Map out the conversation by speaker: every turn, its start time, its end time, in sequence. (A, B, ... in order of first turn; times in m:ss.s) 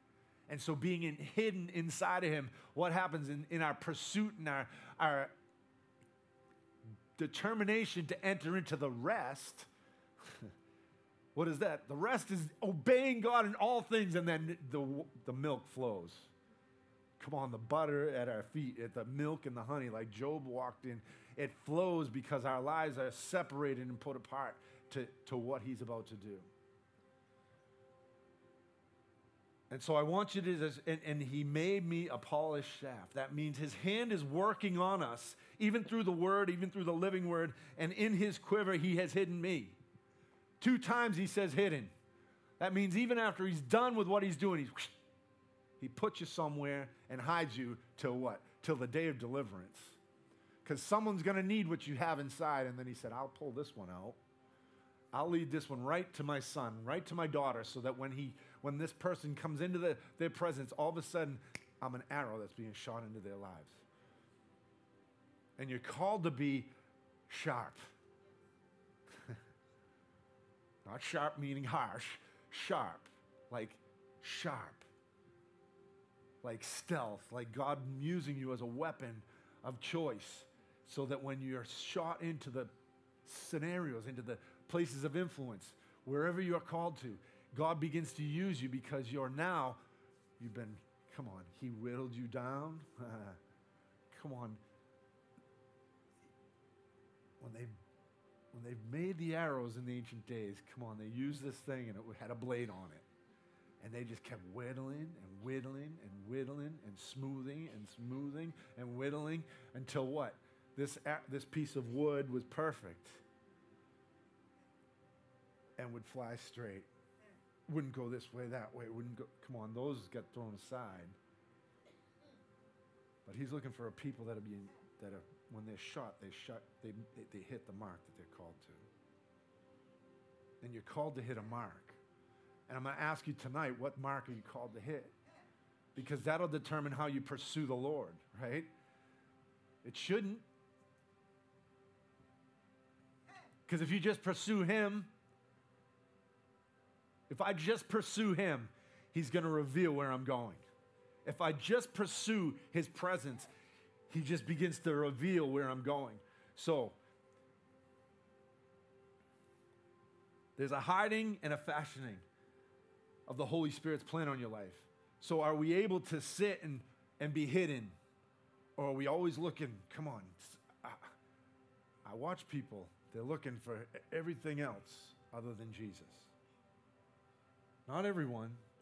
0:00.5-0:05.3 A
0:07.2-0:09.7 A
0:10.2-0:10.5 A
0:11.3-0:16.3 A
0:17.2-0:26.5 A
0:29.7-0:39.8 A
0:40.6-0:41.9 A
0:42.6-0:45.0 A
0:45.8-0:50.0 A
0:50.6-0:54.2 A
0:55.1-1:03.8 A
1:05.6-1:06.7 A
1:07.3-1:07.9 A
1:10.8-1:14.8 A
1:16.4-1:22.7 A
1:23.2-1:29.8 A
1:30.4-1:33.4 A
1:34.1-1:34.6 A
1:37.4-1:37.7 A
1:38.5-1:43.0 A
1:43.8-1:53.2 A
1:55.8-1:56.9 A
1:57.7-2:01.2 A
2:03.2-2:08.8 A
2:10.6-2:12.0 A
2:12.7-2:15.1 A
2:15.9-2:18.7 A
2:19.8-2:20.4 A
2:23.7-2:25.1 A
2:27.3-2:30.6 A
2:31.2-2:33.5 A
2:34.1-2:37.0 A
2:40.6-2:42.2 A
2:43.3-2:48.0 A
2:48.8-2:51.1 A
2:52.0-2:56.3 A
2:57.9-2:58.6 A